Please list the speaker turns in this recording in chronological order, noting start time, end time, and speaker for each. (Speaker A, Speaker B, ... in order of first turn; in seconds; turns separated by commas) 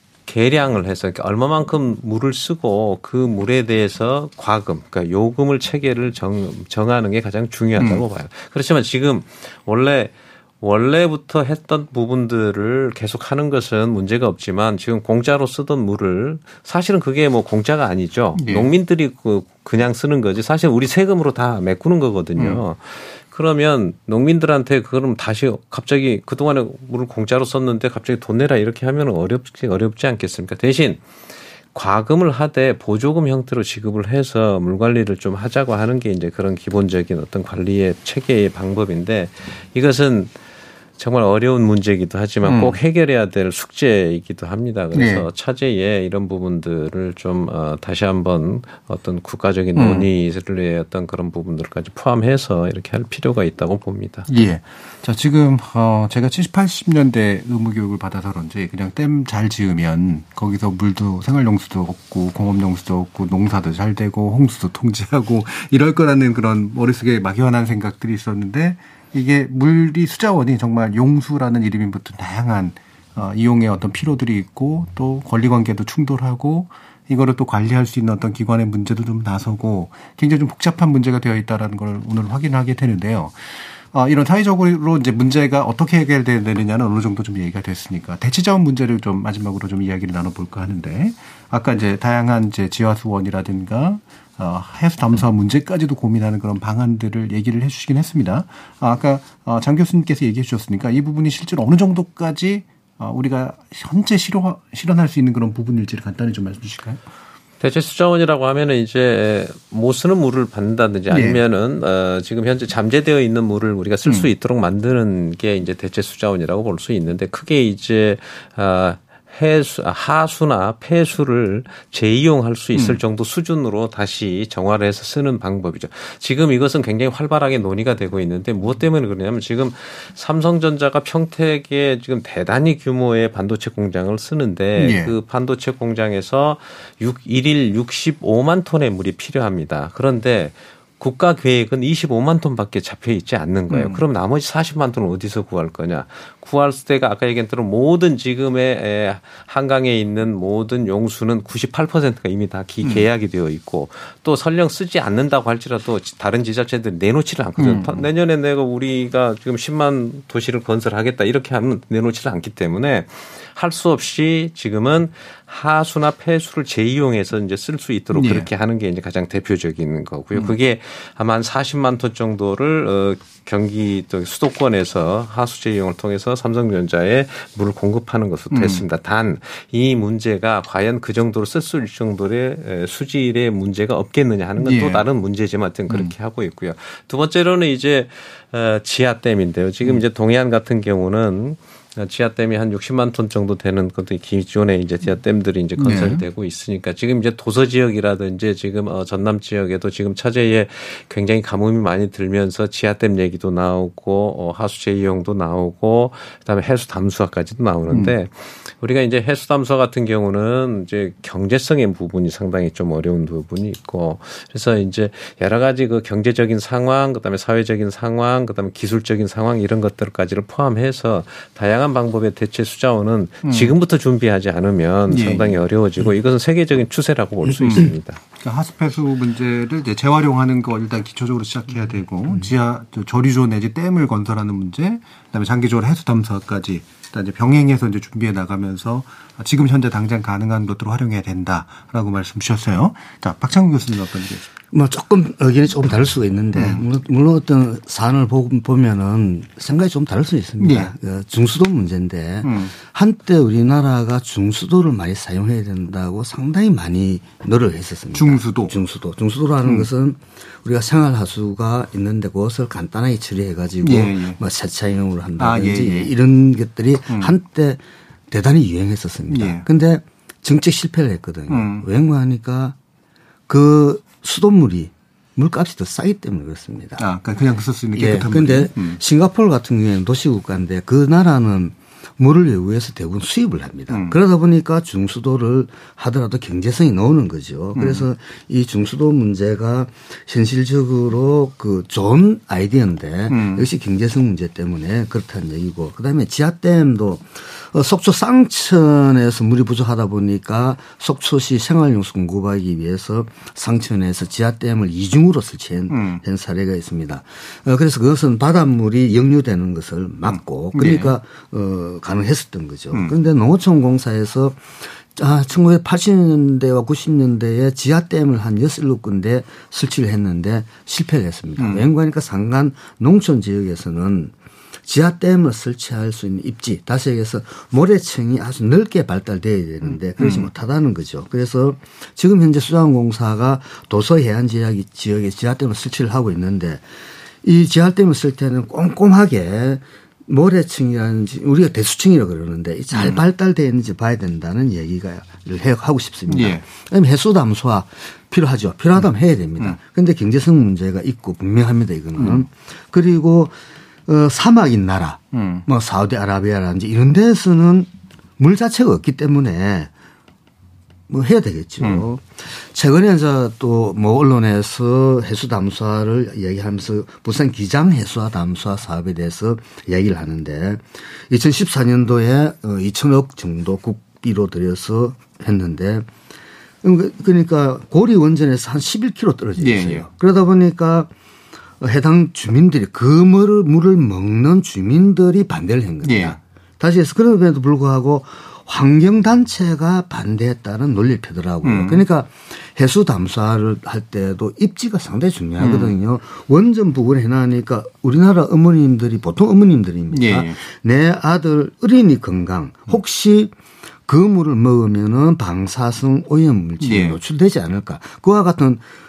Speaker A: 0.3-31.0, Speaker B: 7.8-8.0, Speaker B: 18.4-18.7, Speaker B: 22.4-22.6, Speaker A: 31.7-40.3, Speaker A: 41.0-54.3, Speaker B: 42.4-42.8, Speaker B: 44.9-45.3, Speaker B: 49.8-50.1, Speaker B: 54.3-107.0, Speaker A: 107.6-228.2, Speaker B: 111.1-111.4, Speaker B: 114.0-114.3, Speaker B: 122.7-123.0, Speaker B: 134.8-135.2, Speaker B: 143.7-144.0, Speaker B: 157.6-158.1, Speaker B: 168.1-168.5, Speaker B: 178.5-178.8, Speaker B: 184.6-185.0, Speaker B: 185.9-186.1, Speaker B: 195.8-196.2, Speaker B: 207.9-208.1, Speaker B: 223.4-223.8, Speaker B: 225.1-225.6, Speaker B: 227.6-244.5, Speaker C: 244.7-272.8, Speaker B: 246.6-246.8, Speaker B: 250.6-250.9, Speaker B: 252.4-252.7, Speaker B: 258.1-258.8, Speaker B: 259.6-259.9, Speaker B: 263.8-264.4, Speaker B: 265.4-266.1, Speaker B: 267.1-267.4, Speaker B: 269.3-269.7, Speaker B: 271.5-271.9, Speaker C: 273.5-277.1, Speaker B: 277.0-279.0, Speaker C: 277.9-324.3, Speaker B: 283.9-284.2, Speaker B: 287.8-288.1, Speaker B: 293.3-293.7, Speaker B: 305.9-306.2, Speaker B: 310.3-311.2, Speaker B: 312.9-313.2, Speaker B: 321.6-321.9, Speaker C: 324.9-336.9, Speaker B: 329.8-330.5, Speaker C: 337.4-353.6, Speaker B: 342.9-343.2, Speaker B: 346.3-346.6, Speaker B: 352.2-352.4, Speaker C: 354.1-359.9, Speaker B: 355.3-355.7, Speaker C: 361.1-376.1, Speaker B: 361.8-362.1, Speaker C: 376.8-381.1, Speaker B: 379.6-380.1, Speaker C: 381.8-403.5, Speaker B: 386.0-386.4, Speaker B: 391.6-392.1, Speaker B: 395.6-396.0, Speaker B: 400.1-400.6, Speaker C: 404.1-408.9, Speaker B: 406.8-407.2